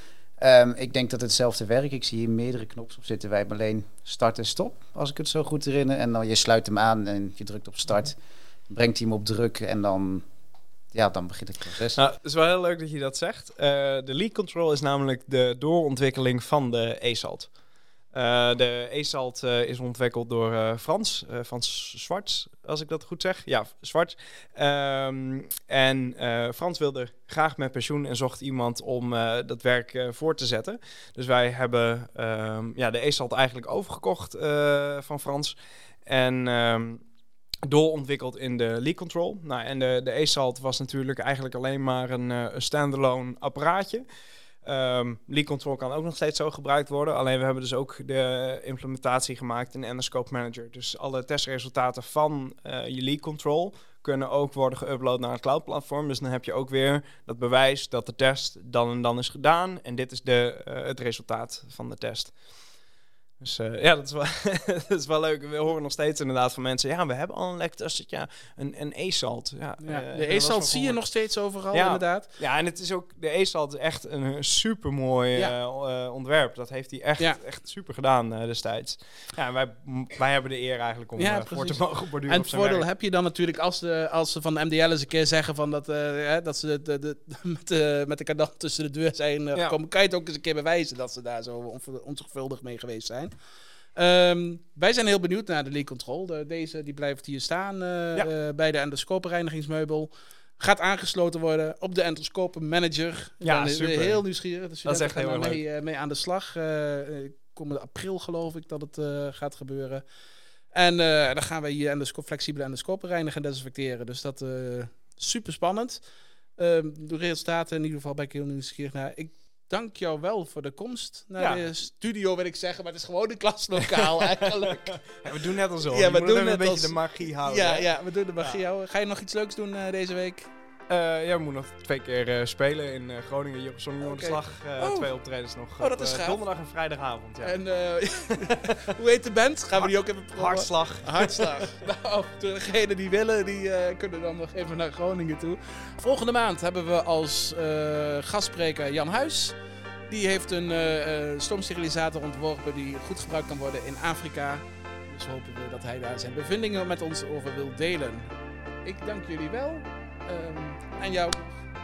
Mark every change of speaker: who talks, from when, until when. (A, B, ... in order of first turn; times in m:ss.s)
0:00.4-0:10.3 A
0:10.9-0:12.0 A
0:12.0-0:17.5 B
0:18.1-0:35.6 B
0:36.1-0:37.0 B
0:37.6-0:44.0 B
0:44.6-1:02.3 B
1:03.4-1:11.0 B
1:09.8-1:12.3 C
1:11.7-1:22.9 B
1:21.2-1:33.3 C
1:34.0-1:50.0 C
1:43.4-1:44.2 B
1:44.8-1:45.6 B
1:50.7-1:56.0 C
1:56.6-2:10.5 C
2:01.4-2:01.6 B
2:03.9-2:07.9 B
2:10.9-2:17.6 B
2:14.0-2:15.1 C
2:15.8-2:16.4 C
2:17.4-2:29.6 C
2:18.2-2:18.8 B
2:19.8-2:21.6 B
2:30.1-2:38.3 C
2:38.8-2:41.6 C